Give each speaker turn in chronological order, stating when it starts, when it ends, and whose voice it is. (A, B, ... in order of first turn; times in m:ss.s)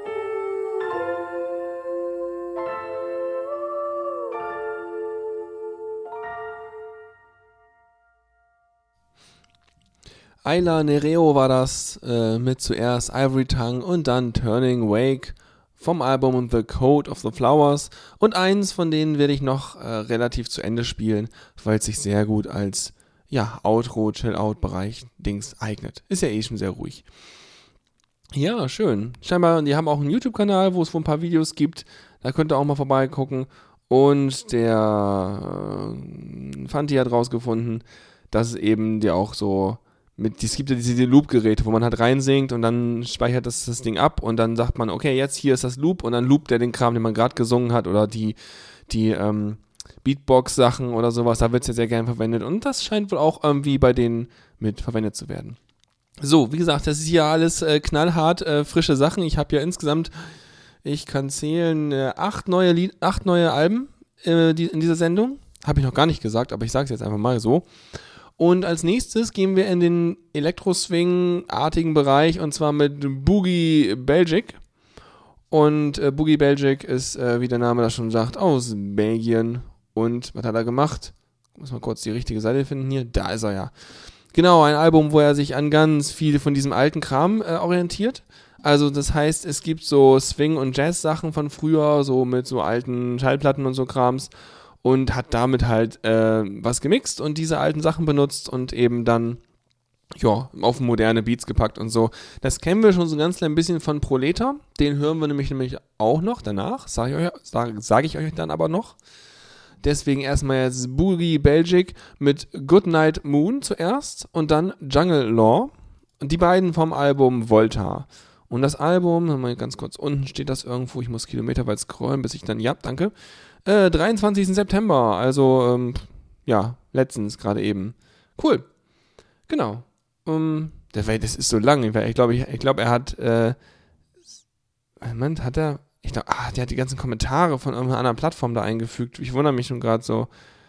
0:10.4-0:27.0 A
0:28.3-0:48.4 A
0:48.9-0:55.6 A
0:56.2-1:00.1 A
1:00.8-1:07.7 A
1:08.4-1:14.6 A
1:15.5-1:23.7 A
1:24.3-1:34.3 A
1:34.8-1:39.4 A
1:40.2-1:49.0 A
1:49.8-2:03.1 A
2:03.6-2:08.7 A
2:09.5-2:13.6 A
2:15.0-2:20.3 A